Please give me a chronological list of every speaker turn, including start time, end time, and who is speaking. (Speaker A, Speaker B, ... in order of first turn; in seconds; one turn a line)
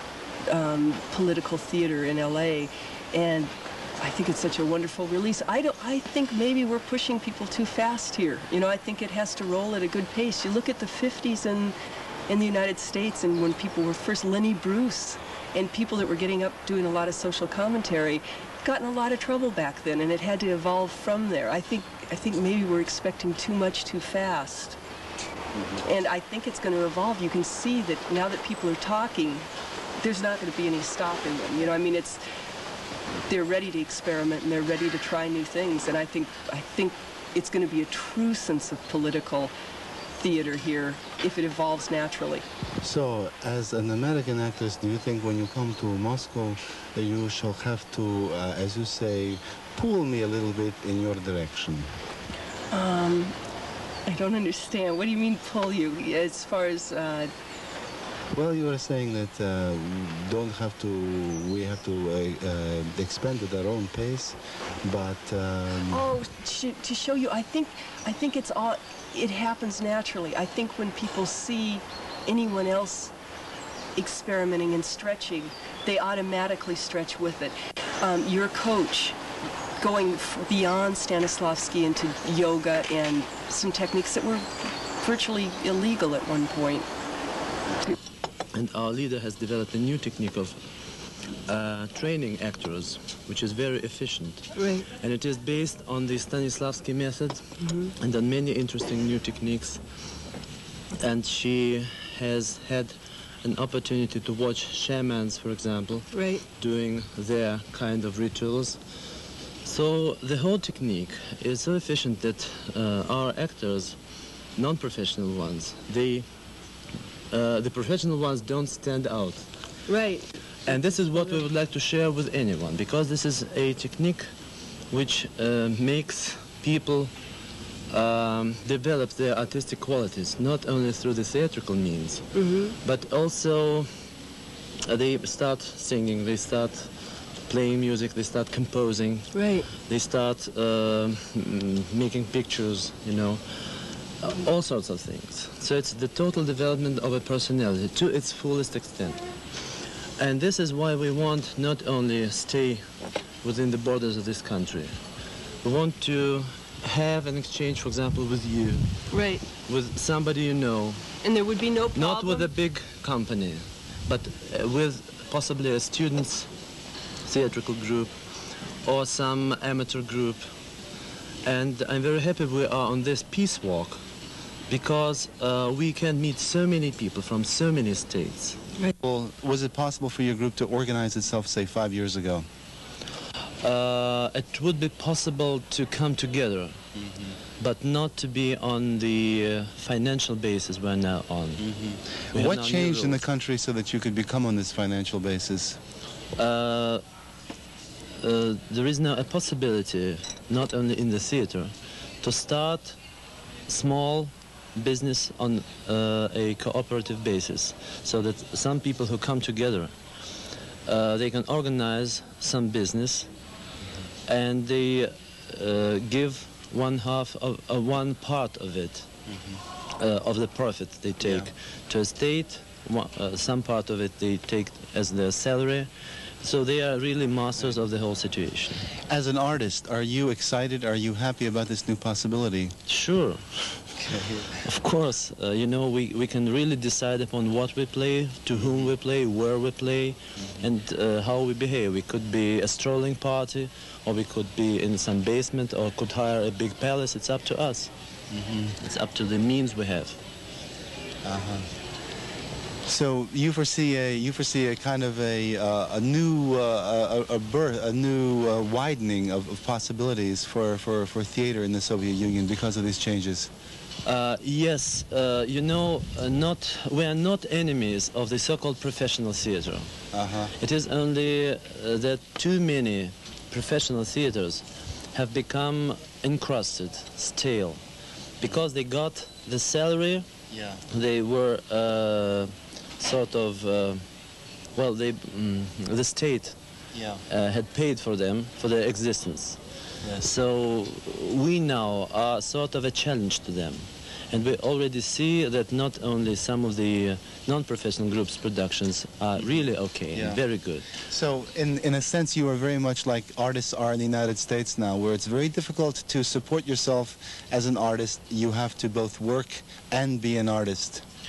Speaker A: 0.5-11.8
Speaker A: 12.3-24.8
Speaker B: 25.6-25.8
Speaker A: 25.8-29.5
Speaker A: 30.0-32.2
Speaker A: 33.3-39.5
Speaker A: 40.2-42.5
Speaker B: 42.8-51.9
Speaker A: 52.7-53.4
Speaker A: 54.1-57.3
Speaker B: 58.3-66.1
Speaker A: 65.9-73.1
Speaker A: 74.0-79.2
Speaker A: 79.8-86.9
Speaker C: 88.5-90.7
Speaker C: 91.5-100.2
Speaker C: 101.0-108.8
Speaker C: 109.6-114.0
Speaker C: 114.5-116.3
Speaker C: 117.3-119.8
Speaker C: 120.7-124.3
Speaker C: 124.9-127.2
Speaker C: 127.9-134.1
Speaker A: 132.3-132.8
Speaker C: 134.9-155.0
Speaker A: 139.3-139.7
Speaker C: 155.6-161.2
Speaker A: 159.1-159.4
Speaker A: 161.2-162.5
Speaker C: 161.9-166.5
Speaker C: 167.3-170.5
Speaker C: 171.4-174.0
Speaker C: 174.7-178.6
Speaker B: 179.0-182.5
Speaker C: 183.6-186.8
Speaker B: 187.0-187.4
Speaker C: 187.6-193.2
Speaker B: 191.6-195.8
Speaker C: 196.3-197.0
Speaker C: 198.2-203.0
Speaker C: 203.7-209.9
Speaker C: 210.8-213.3
Speaker C: 214.3-219.1
Speaker B: 219.3-219.6
Speaker C: 220.0-225.9
Speaker B: 221.2-221.5
Speaker C: 226.4-228.9
Speaker B: 229.1-232.8
Speaker C: 232.9-233.9
Speaker B: 234.0-234.5
Speaker C: 234.6-247.9
Speaker B: 248.3-248.8
Speaker C: 248.8-250.2
Speaker B: 251.2-251.7
Speaker B: 252.9-263.5
Speaker C: 264.0-269.9
Speaker B: 270.1-270.5
Speaker C: 270.6-277.8
Speaker C: 278.4-280.3
Speaker B: 280.5-280.8
Speaker C: 280.9-284.1
Speaker C: 284.8-286.6
Speaker B: 286.9-287.2
Speaker C: 287.3-289.6
Speaker B: 290.0-290.3
Speaker C: 290.2-300.9
Speaker B: 300.1-300.4
Speaker B: 301.1-311.0